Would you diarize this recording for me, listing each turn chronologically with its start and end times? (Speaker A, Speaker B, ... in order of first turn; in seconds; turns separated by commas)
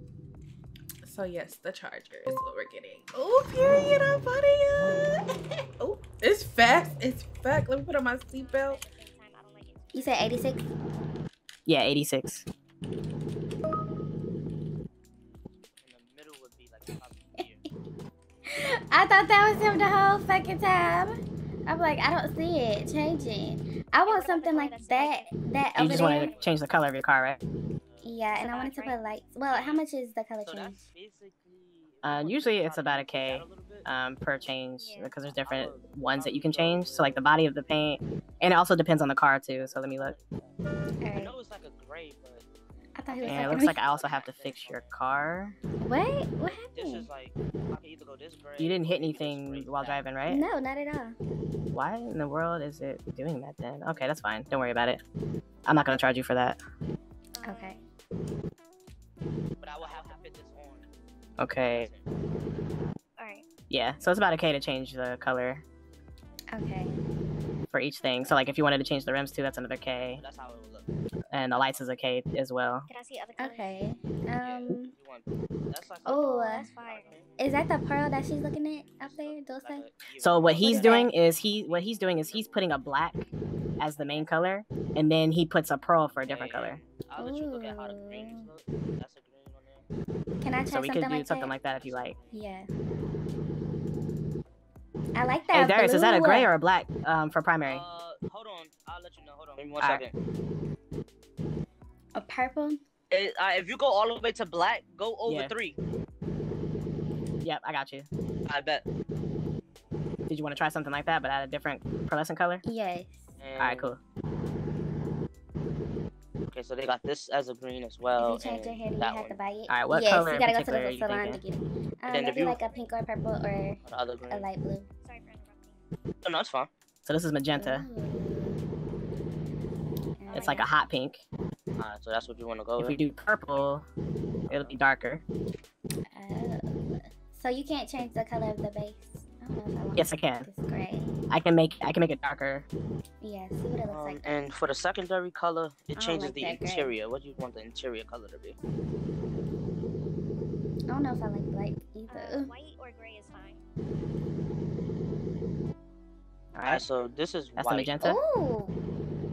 Speaker A: 1.0-8.8, Speaker B: 8.2-10.5, Speaker C: 9.9-10.6, Speaker D: 11.7-12.4, Speaker E: 15.8-17.6, Speaker C: 18.5-26.3, Speaker B: 24.0-26.4, Speaker D: 25.8-27.4, Speaker E: 25.8-26.6, Speaker E: 27.9-28.4, Speaker C: 28.0-30.8, Speaker B: 28.3-29.3, Speaker E: 29.5-29.8, Speaker E: 30.4-33.9, Speaker D: 32.0-40.1, Speaker B: 34.8-35.2, Speaker E: 35.2-37.4, Speaker E: 39.5-40.6, Speaker C: 41.0-41.3, Speaker E: 41.1-42.5, Speaker C: 43.0-43.9, Speaker E: 43.1-45.0, Speaker D: 43.2-45.6, Speaker C: 45.8-47.1, Speaker E: 46.7-50.1, Speaker D: 48.6-50.4, Speaker C: 50.3-51.2, Speaker D: 51.7-55.0, Speaker D: 55.7-56.6, Speaker B: 57.3-57.9, Speaker C: 57.4-57.8, Speaker E: 59.6-60.9, Speaker D: 61.4-61.9, Speaker E: 61.6-62.0, Speaker B: 63.2-63.5, Speaker D: 63.7-65.6, Speaker C: 66.5-67.0, Speaker D: 67.7-70.2, Speaker E: 70.2-70.9, Speaker D: 71.3-72.9, Speaker B: 72.9-73.8, Speaker C: 73.4-74.9, Speaker E: 74.4-77.4, Speaker C: 76.1-76.7, Speaker B: 76.1-77.3, Speaker C: 77.4-79.9, Speaker E: 78.9-82.8, Speaker D: 80.2-83.2, Speaker C: 80.5-81.1, Speaker D: 83.8-86.9, Speaker E: 86.2-89.8, Speaker C: 87.2-88.5, Speaker C: 90.4-91.5, Speaker D: 90.7-92.2, Speaker E: 91.8-92.2, Speaker C: 92.3-92.7, Speaker C: 95.2-96.5, Speaker D: 95.5-97.9, Speaker E: 97.7-100.1, Speaker D: 99.8-100.0, Speaker C: 102.2-102.8, Speaker E: 103.1-105.8, Speaker D: 105.3-105.5, Speaker D: 107.4-108.1, Speaker E: 108.5-108.8, Speaker D: 110.3-112.6, Speaker C: 112.6-113.4, Speaker E: 113.4-113.9, Speaker D: 113.6-114.0, Speaker E: 116.5-119.4, Speaker C: 118.2-124.9, Speaker D: 119.7-121.4, Speaker E: 122.1-122.6, Speaker E: 123.8-124.5, Speaker B: 125.0-125.8, Speaker E: 126.2-126.7, Speaker D: 127.0-127.9, Speaker C: 127.5-128.6, Speaker C: 130.2-130.7, Speaker B: 130.2-130.7, Speaker D: 130.3-131.2, Speaker E: 131.8-133.0, Speaker D: 132.8-133.8, Speaker E: 134.5-134.8, Speaker D: 134.5-135.2, Speaker C: 136.1-141.2, Speaker D: 139.9-140.5, Speaker D: 141.3-142.7, Speaker C: 143.2-144.5, Speaker E: 143.9-148.6, Speaker C: 145.9-146.9, Speaker C: 150.9-152.5, Speaker B: 152.1-153.6, Speaker D: 156.5-156.8, Speaker E: 156.7-158.0, Speaker D: 157.6-158.2, Speaker C: 158.0-158.8